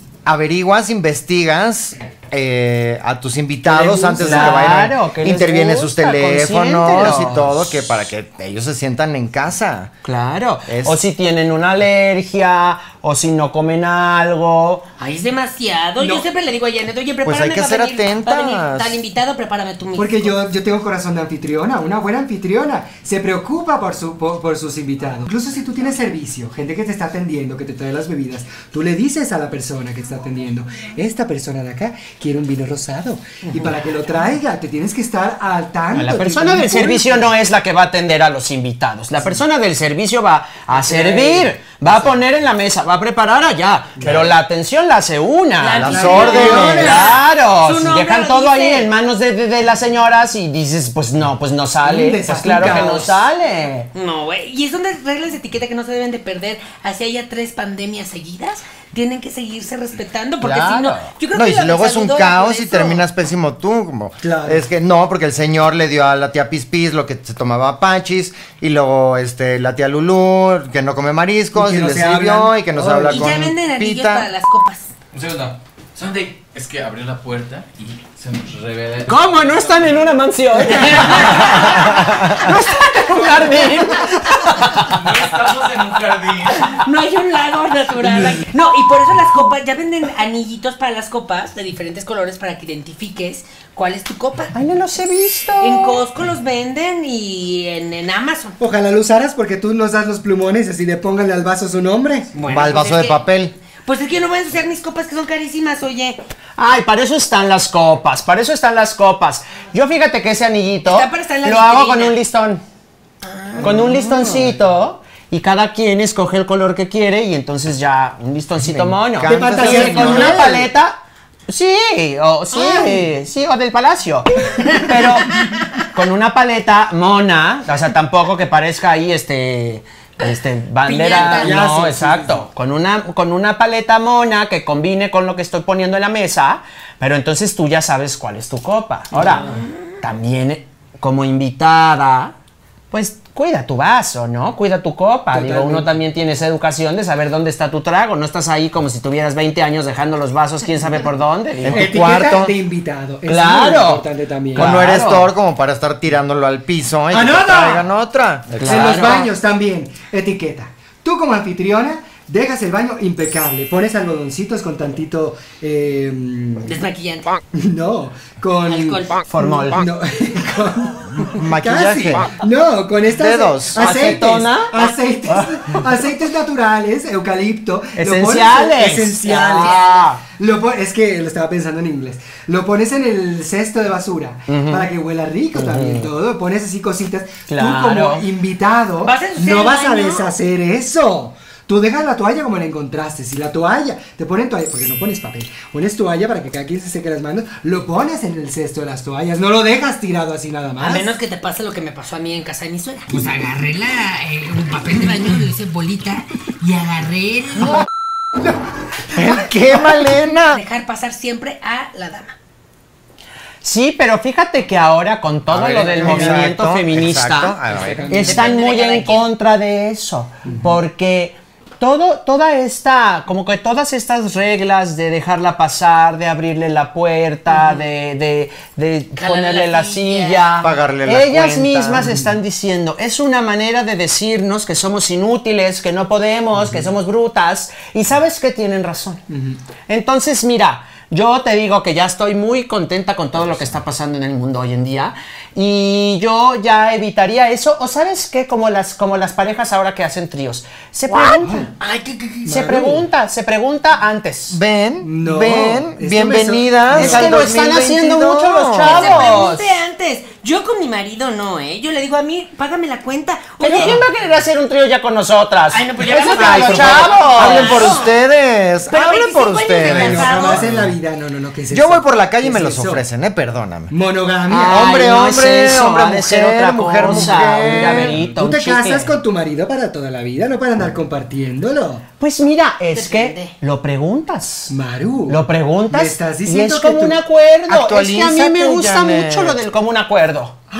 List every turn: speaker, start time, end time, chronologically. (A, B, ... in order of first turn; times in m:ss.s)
0:00.3-0:09.9 A
0:03.7-0:07.7 B
0:04.2-0:04.6 C
0:10.0-0:14.8 B
0:10.7-0:11.0 A
0:15.0-0:20.4 D
0:16.0-0:16.2 C
0:17.2-0:19.0 A
0:20.0-0:37.2 C
0:36.0-0:53.9 B
0:40.7-0:41.5 C
0:44.0-0:44.3 C
0:45.6-0:48.9 D
0:45.8-0:47.0 A
0:45.9-0:47.1 C
0:51.8-0:53.2 C
0:54.0-1:03.0 D
1:00.4-1:01.1 B
1:01.3-1:14.3 A
1:04.2-1:04.6 C
1:11.5-1:13.4 C
1:13.0-1:14.9 D
1:15.1-1:19.9 E
1:19.1-1:25.1 B
1:20.6-1:22.0 D
1:24.8-1:26.7 E
1:26.6-1:34.6 D
1:34.5-1:36.0 B
1:35.6-1:38.6 D
1:38.6-1:42.3 C
1:42.4-1:43.2 D
1:42.5-1:43.5 A
1:43.9-1:46.2 D
1:46.6-1:52.6 B
1:50.8-1:52.2 D
1:53.2-1:53.6 D
1:53.6-2:22.3 B
1:53.6-1:54.5 C
1:53.6-1:54.5 A
1:58.6-2:00.7 A
1:59.2-2:00.7 C
2:02.5-2:03.1 C
2:04.6-2:05.5 D
2:10.2-2:11.6 D
2:11.1-2:12.5 C
2:19.1-2:19.6 C
2:22.9-2:31.9 B
2:25.3-2:25.9 C
2:31.6-2:32.6 A
2:31.7-2:34.7 C
2:33.3-2:35.3 B
2:34.6-2:39.1 A
2:37.1-2:37.9 C
2:38.5-2:39.3 B
2:38.6-2:46.7 C
2:46.7-2:47.4 D
2:47.5-2:59.8 C
2:48.7-2:49.2 D
2:49.3-2:49.8 B
2:51.2-2:52.3 A
2:53.1-2:54.2 A
2:53.8-2:55.7 B
2:58.0-3:00.2 B
2:59.6-3:00.1 D
3:00.3-3:21.1 C
3:04.5-3:04.9 B
3:05.6-3:06.1 B
3:07.5-3:08.3 B
3:09.0-3:10.3 D
3:20.8-3:27.8 D
3:29.1-3:30.6 A
3:30.5-3:32.4 D
3:33.6-3:37.6 B
3:35.5-3:38.1 A
3:35.8-3:36.5 C
3:37.7-3:38.5 C
3:38.1-3:39.3 D
3:38.1-3:59.2 B
3:40.4-3:40.8 C
3:47.5-3:47.8 D
3:49.2-3:50.7 D
3:50.6-3:52.2 A
3:56.6-3:56.9 C
3:59.3-3:59.6 C
3:59.9-4:11.7 B
4:11.2-4:11.7 C
4:11.2-4:12.5 D
4:12.4-4:13.1 C
4:12.5-4:14.6 B
4:14.5-4:19.2 A
4:15.0-4:17.4 C
4:16.9-4:19.7 B
4:18.8-4:24.0 D
4:23.6-4:27.9 B
4:25.7-4:28.2 D
4:26.3-4:30.9 A
4:28.9-4:30.7 D
4:29.8-4:33.0 C
4:31.7-4:33.9 A
4:33.9-4:34.9 C
4:34.5-4:39.1 B
4:34.6-4:38.2 A
4:38.3-4:42.0 C
4:42.2-4:44.7 B
4:42.9-4:43.5 D
4:44.7-4:47.2 C
4:45.3-4:50.6 B
4:47.7-4:49.6 A